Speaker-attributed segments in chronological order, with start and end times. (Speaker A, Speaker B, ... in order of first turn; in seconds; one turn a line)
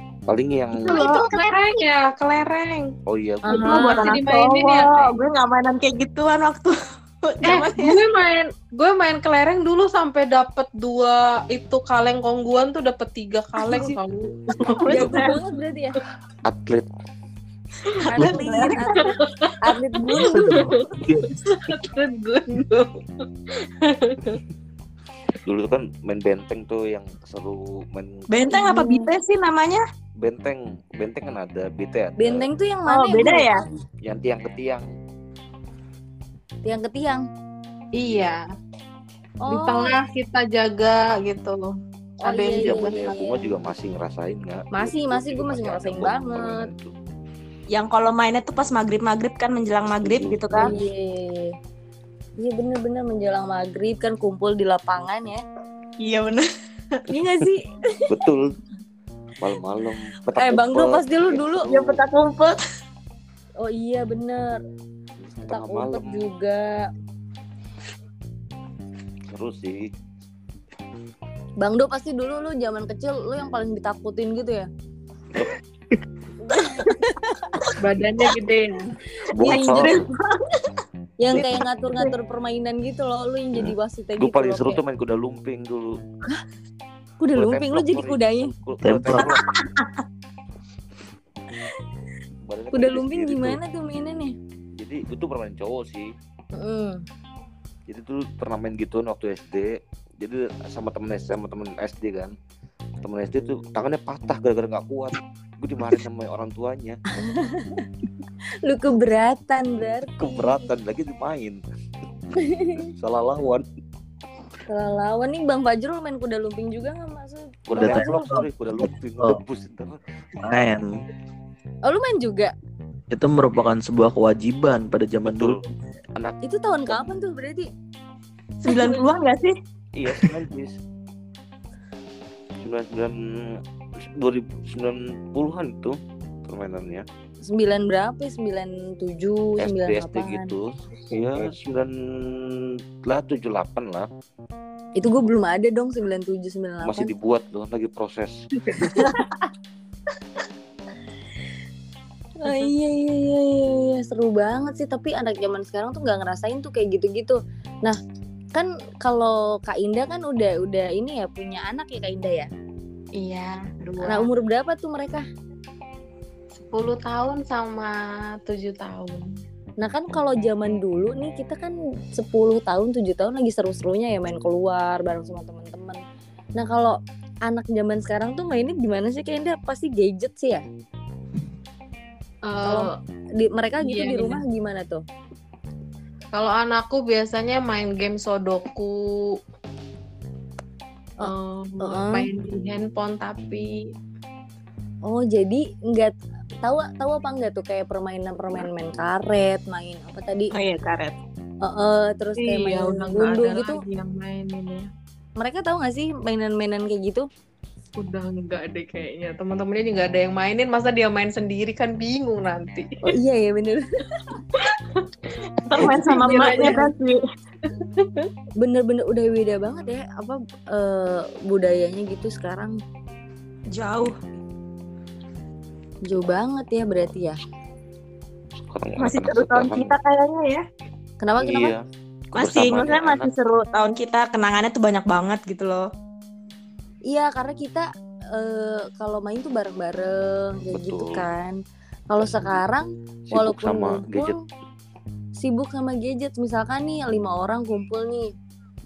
Speaker A: 0.3-1.0
Speaker B: 0.8-1.4
Speaker C: 0.9-2.9
Speaker A: 3.1-3.8
Speaker C: 3.5-5.1
Speaker D: 3.5-4.0
Speaker B: 3.6-8.0
Speaker C: 7.4-15.0
Speaker B: 14.6-15.4
Speaker D: 14.9-16.0
Speaker A: 16.4-16.9
Speaker B: 17.9-19.0
Speaker D: 18.1-20.6
Speaker C: 18.9-20.9
Speaker E: 20.2-21.4
Speaker C: 21.5-22.9
Speaker C: 23.5-24.4
Speaker A: 25.4-28.3
Speaker B: 28.3-29.8
Speaker D: 28.5-29.1
Speaker A: 30.2-32.5
Speaker D: 32.2-33.7
Speaker B: 32.9-33.6
Speaker A: 34.0-34.9
Speaker D: 36.6-37.2
Speaker C: 37.9-38.4
Speaker D: 39.4-40.0
Speaker C: 39.5-41.7
Speaker D: 42.2-43.5
Speaker C: 42.2-43.0
Speaker A: 42.5-46.9
Speaker D: 44.7-46.7
Speaker B: 47.7-50.7
Speaker A: 50.0-50.8
Speaker D: 50.5-51.5
Speaker D: 52.4-55.4
Speaker B: 56.0-57.0
Speaker D: 57.1-58.1
Speaker A: 58.1-58.5
Speaker A: 59.4-62.0
Speaker D: 60.4-61.7
Speaker B: 61.7-62.6
Speaker D: 63.6-64.6
Speaker A: 65.2-66.3
Speaker D: 65.5-66.9
Speaker A: 69.3-69.9
Speaker D: 71.6-74.7
Speaker D: 76.4-77.7
Speaker C: 77.8-79.0
Speaker A: 79.3-80.1
Speaker B: 79.4-80.6
Speaker D: 79.4-79.9
Speaker D: 81.2-84.8
Speaker B: 81.4-82.1
Speaker A: 83.5-86.0
Speaker D: 87.2-88.5
Speaker A: 87.3-89.5
Speaker E: 88.8-89.3
Speaker B: 89.4-89.9
Speaker A: 92.5-93.6
Speaker D: 92.7-94.3
Speaker A: 94.8-96.1
Speaker D: 96.5-97.0
Speaker A: 97.9-102.3
Speaker A: 103.0-107.0
Speaker D: 107.2-107.9
Speaker D: 108.7-110.6
Speaker A: 110.2-111.6
Speaker D: 112.4-112.8
Speaker A: 112.8-113.7
Speaker D: 114.7-118.3
Speaker A: 117.7-120.0
Speaker E: 117.7-119.4
Speaker E: 120.4-120.9
Speaker D: 121.8-122.5
Speaker E: 123.1-125.8
Speaker A: 125.2-125.6
Speaker D: 126.4-127.7
Speaker B: 128.6-129.5
Speaker D: 128.7-129.0
Speaker A: 129.9-130.8
Speaker A: 132.6-137.1
Speaker D: 137.4-140.5
Speaker A: 139.6-144.1
Speaker D: 145.0-147.1
Speaker A: 146.8-148.3
Speaker D: 148.7-149.2
Speaker B: 148.9-149.2
Speaker D: 152.4-158.0
Speaker D: 158.5-162.5
Speaker C: 163.2-164.3
Speaker D: 164.0-165.2
Speaker C: 166.6-169.3
Speaker D: 169.8-176.0
Speaker D: 176.6-180.6
Speaker C: 182.4-182.9
Speaker D: 182.6-185.0
Speaker C: 183.8-184.4
Speaker C: 186.3-189.4
Speaker D: 191.2-192.3
Speaker C: 191.2-193.8
Speaker D: 195.1-200.5
Speaker B: 200.5-201.2
Speaker D: 201.6-203.8
Speaker C: 202.4-204.9
Speaker D: 205.4-207.2
Speaker C: 208.0-213.0
Speaker D: 213.0-213.9
Speaker C: 214.5-215.1
Speaker B: 215.7-217.2
Speaker C: 215.7-216.9
Speaker C: 217.7-218.3
Speaker D: 218.6-222.8
Speaker B: 223.7-224.2
Speaker D: 226.1-227.4
Speaker A: 228.6-229.9
Speaker B: 229.0-230.6
Speaker D: 231.2-231.7
Speaker A: 231.4-231.8
Speaker B: 232.3-235.9
Speaker A: 232.3-233.3
Speaker D: 237.1-241.6
Speaker A: 240.7-241.3
Speaker D: 242.1-244.3
Speaker A: 242.2-242.6
Speaker A: 243.3-244.3
Speaker D: 245.4-248.3